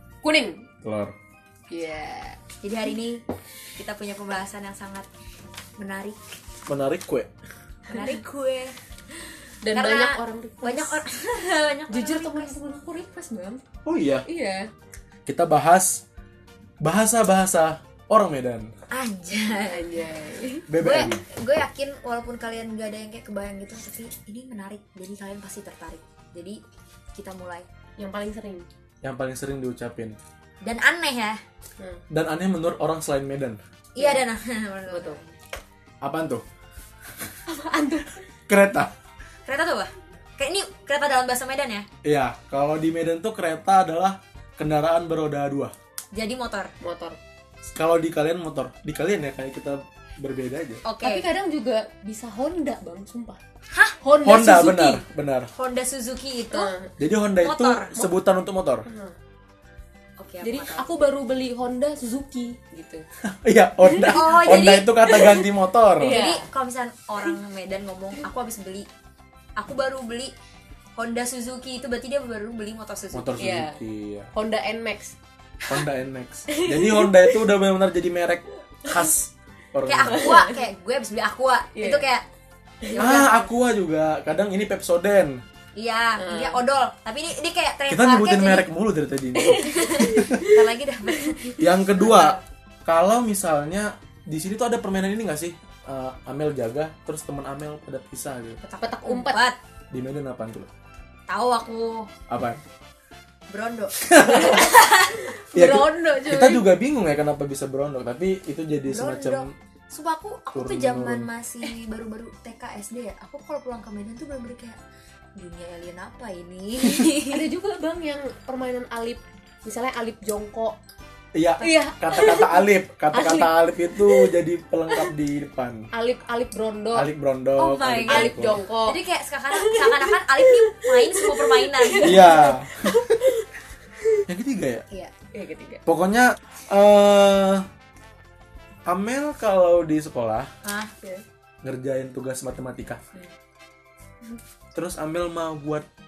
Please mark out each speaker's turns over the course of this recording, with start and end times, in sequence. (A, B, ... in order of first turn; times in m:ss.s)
0:00.2-0:00.6 A
0:00.8-0:01.1 B
0:01.7-0:02.4 A
0:02.6-0:03.2 C
0:03.8-0:05.1 C
0:05.8-0:06.4 C
0:06.7-0:07.3 B
0:07.9-0:12.6 C
0:09.6-0:11.0 A
0:11.9-0:13.6 A
0:13.8-0:14.3 B
0:14.3-0:14.7 A
0:15.3-0:16.0 B
0:16.8-0:18.7 B
0:18.9-0:19.9 C
0:19.7-0:20.7 A
0:20.7-0:21.2 B
0:20.8-0:26.6 C
0:27.2-0:27.7 C
0:28.0-0:28.7 A
0:29.0-0:30.2 B
0:30.6-0:31.4 C
0:32.1-0:33.6 B
0:34.0-0:35.4 C
0:34.0-0:34.2 A
0:34.9-0:35.2 A
0:36.0-0:36.4 B
0:37.5-0:38.2 A
0:38.5-0:38.9 B
0:39.4-0:41.9 C
0:42.0-0:45.7 B
0:46.1-0:46.7 C
0:46.8-0:47.2 A
0:47.6-0:50.8 B
0:50.8-0:51.3 C
0:51.0-0:53.4 A
0:53.7-0:54.0 C
0:54.0-0:55.0 A
0:54.2-0:55.5 B
0:55.6-0:56.8 C
0:56.5-0:57.0 A
0:57.0-0:58.9 B
0:57.4-0:58.1 C
0:58.9-0:59.2 A
1:00.2-1:00.9 C
1:00.4-1:03.0 A
1:03.2-1:06.2 B
1:04.0-1:05.3 C
1:06.0-1:06.5 A
1:06.0-1:08.9 C
1:09.6-1:10.3 C
1:11.0-1:13.4 C
1:13.1-1:14.3 B
1:13.4-1:13.8 A
1:14.3-1:15.2 A
1:15.7-1:20.4 B
1:16.5-1:17.3 A
1:19.8-1:22.2 C
1:20.2-1:20.6 A
1:21.8-1:22.1 A
1:22.8-1:23.3 A
1:22.9-1:23.5 C
1:23.0-1:25.4 B
1:25.8-1:28.7 C
1:26.2-1:26.6 A
1:27.9-1:30.4 B
1:29.4-1:30.6 A
1:29.6-1:32.4 C
1:31.6-1:38.6 B
1:38.6-1:39.4 A
1:39.0-1:39.6 C
1:39.9-1:40.7 B
1:41.3-1:42.1 C
1:42.3-1:42.6 B
1:43.5-1:45.3 C
1:44.0-1:44.7 B
1:45.2-1:46.7 A
1:45.5-1:49.5 B
1:48.8-1:54.8 C
1:50.5-1:51.3 B
1:55.4-1:57.5 C
1:57.3-2:00.8 A
2:01.3-2:05.9 B
2:01.6-2:04.4 A
2:05.9-2:07.1 A
2:06.9-2:08.6 B
2:07.6-2:12.5 C
2:08.1-2:09.0 A
2:09.6-2:13.5 A
2:12.0-2:13.2 B
2:14.3-2:14.8 B
2:15.3-2:15.8 A
2:15.9-2:17.6 B
2:18.9-2:20.5 B
2:20.6-2:20.9 C
2:21.6-2:23.0 B
2:24.7-2:25.9 B